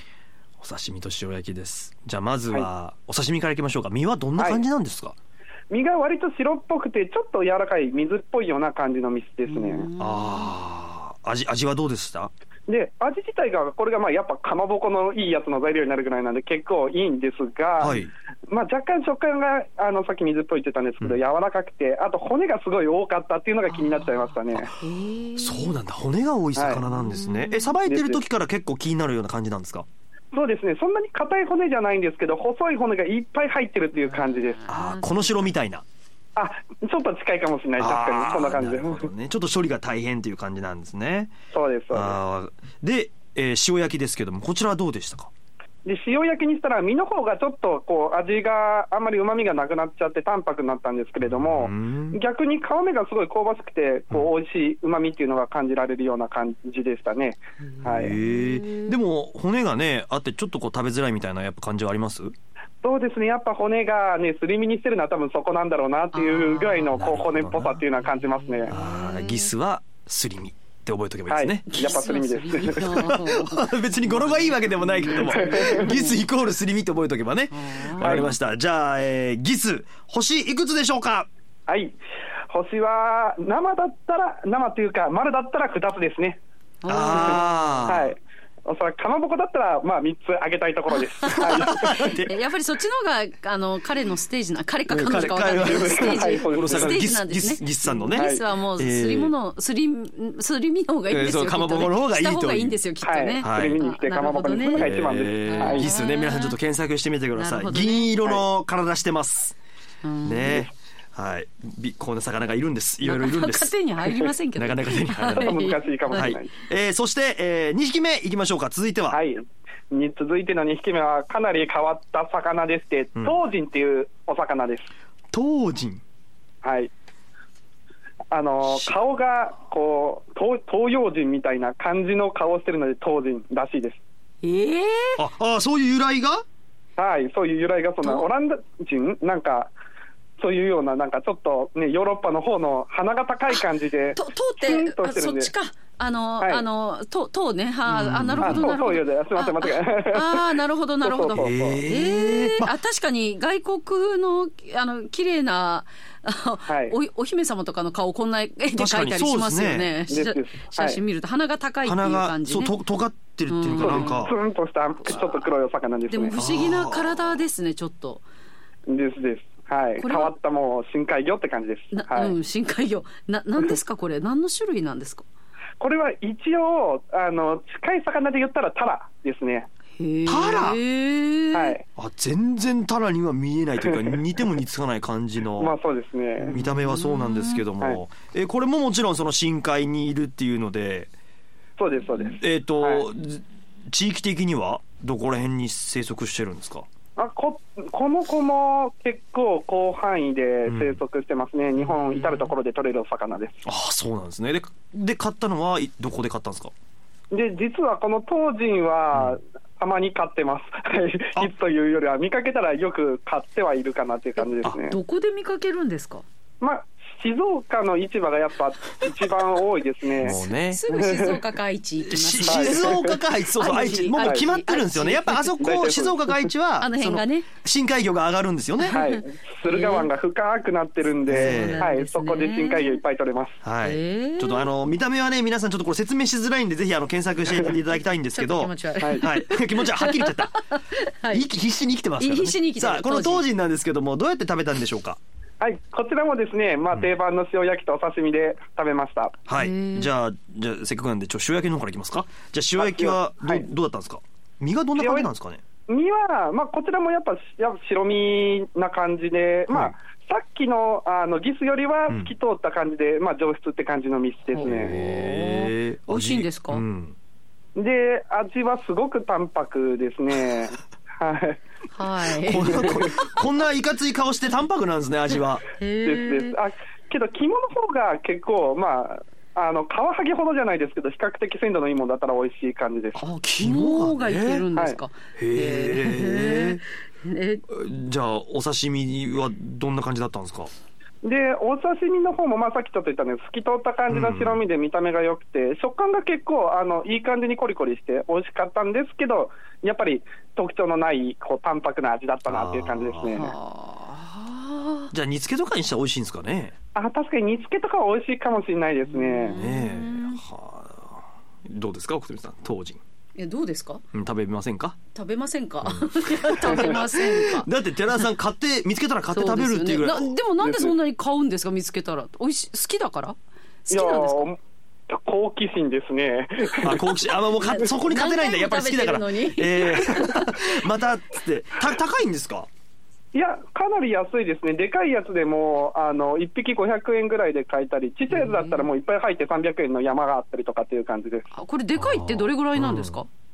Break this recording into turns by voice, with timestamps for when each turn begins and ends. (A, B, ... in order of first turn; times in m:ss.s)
0:00.6-0:05.1 A
0:04.4-0:04.6 B
0:05.7-0:09.9 B
0:09.5-0:10.5 C
0:10.0-0:12.3 A
0:12.7-0:24.7 B
0:17.8-0:18.1 A
0:24.8-0:25.8 C
0:25.4-0:29.8 A
0:26.6-0:26.8 B
0:26.8-0:27.8 C
0:27.8-0:28.2 B
0:30.3-0:34.6 B
0:33.9-0:35.5 C
0:34.7-0:35.8 A
0:36.4-0:39.1 B
0:37.8-0:41.3 A
0:41.5-0:42.2 B
0:41.9-0:45.3 A
0:45.8-0:58.2 B
0:51.2-0:52.2 A
0:57.7-0:59.0 C
0:57.9-1:02.3 A
1:02.8-1:08.7 B
1:06.1-1:07.2 C
1:06.9-1:07.8 A
1:08.0-1:09.5 C
1:08.7-1:12.0 A
1:11.3-1:12.9 B
1:11.7-1:16.2 C
1:12.6-1:21.3 A
1:15.3-1:15.8 B
1:17.5-1:18.3 C
1:21.7-1:22.0 B
1:22.5-1:26.4 B
1:26.8-1:27.8 C
1:26.9-1:28.1 A
1:27.1-1:32.1 B
1:31.2-1:46.5 C
1:31.3-1:32.3 A
1:34.9-1:39.3 A
1:35.2-1:37.0 B
1:38.1-1:38.4 B
1:41.1-1:42.8 A
1:43.0-1:45.9 B
1:43.4-1:43.8 A
1:44.7-1:49.6 A
1:47.3-1:48.2 C
1:50.0-1:50.7 C
1:50.2-1:53.7 A
1:53.0-1:56.4 C
1:54.5-1:55.6 A
1:55.4-1:56.5 B
1:56.1-1:59.2 A
1:59.1-2:04.8 B
2:05.3-2:06.0 A
2:06.6-2:06.9 B
2:08.3-2:14.0 B
2:08.6-2:09.0 A
2:14.4-2:15.2 C
2:15.2-2:16.4 A
2:17.0-2:19.7 B
2:20.4-2:25.5 B
2:23.5-2:42.7 C
2:27.9-2:28.7 A
2:28.4-2:30.5 B
2:31.0-2:31.8 B
2:31.4-2:32.7 A
2:36.7-2:36.9 B
2:38.8-2:39.9 A
2:40.1-2:41.0 B
2:41.8-2:44.3 A
2:43.5-2:44.3 C
2:43.8-2:46.3 B
2:45.0-2:45.4 C
2:46.1-2:48.2 C
2:46.4-2:47.4 A
2:48.9-2:52.4 B
2:50.0-2:50.3 C
2:51.9-2:55.2 C
2:55.8-2:59.7 B
3:00.0-3:01.8 C
3:00.2-3:00.8 A
3:01.5-3:01.8 B
3:02.0-3:05.7 A
3:03.8-3:04.2 B
3:05.6-3:06.5 B
3:06.4-3:07.6 C
3:06.5-3:11.1 A
3:11.8-3:13.1 B
3:12.2-3:16.8 A
3:17.2-3:23.6 B
3:20.6-3:21.0 A
3:23.6-3:26.7 A
3:27.3-3:35.0 B
3:34.8-3:36.2 C
3:36.6-3:41.4 B
3:40.2-3:40.8 A
3:40.2-3:45.6 C
3:42.0-3:49.0 A
3:42.4-3:44.5 B
3:45.6-3:46.5 B
3:46.8-3:47.5 C
3:48.8-3:50.1 C
3:48.9-3:53.6 B
3:51.2-3:51.9 A
3:51.3-3:53.0 C
3:53.6-4:00.6 A
3:53.8-3:54.7 C
3:58.4-4:01.4 C
4:01.3-4:05.2 A
4:02.2-4:03.4 C
4:05.6-4:09.4 B
4:09.5-4:15.6 A
4:09.5-4:10.1 C
4:12.8-4:13.6 B
4:15.0-4:15.3 B
4:15.9-4:25.0 B
4:19.7-4:19.9 A
4:24.5-4:26.8 C
4:24.6-4:27.1 A
4:27.8-4:31.6 B
4:31.9-4:33.3 C
4:32.3-4:35.6 A
4:35.8-4:36.5 C
4:36.0-4:43.2 B
4:43.2-4:47.6 C
4:43.2-4:44.6 A
4:45.4-4:46.8 A
4:47.7-4:50.7 A
4:51.2-5:03.5 B
4:54.1-4:54.6 A
5:02.4-5:03.3 A
5:03.3-5:05.1 C
5:05.1-5:06.7 A
5:06.9-5:09.6 B
5:09.1-5:10.4 C
5:09.5-5:13.0 A
5:13.4-5:14.0 C
5:14.1-5:15.0 A
5:15.1-5:18.2 C
5:15.8-5:20.4 A
5:19.3-5:24.5 C
5:20.6-5:20.9 B
5:23.9-5:24.6 B
5:25.1-5:27.0 B
5:26.8-5:32.7 A
5:27.6-5:30.8 C
5:33.3-5:41.4 B
5:38.3-5:38.9 C
5:41.5-5:43.3 C
5:42.0-5:43.2 A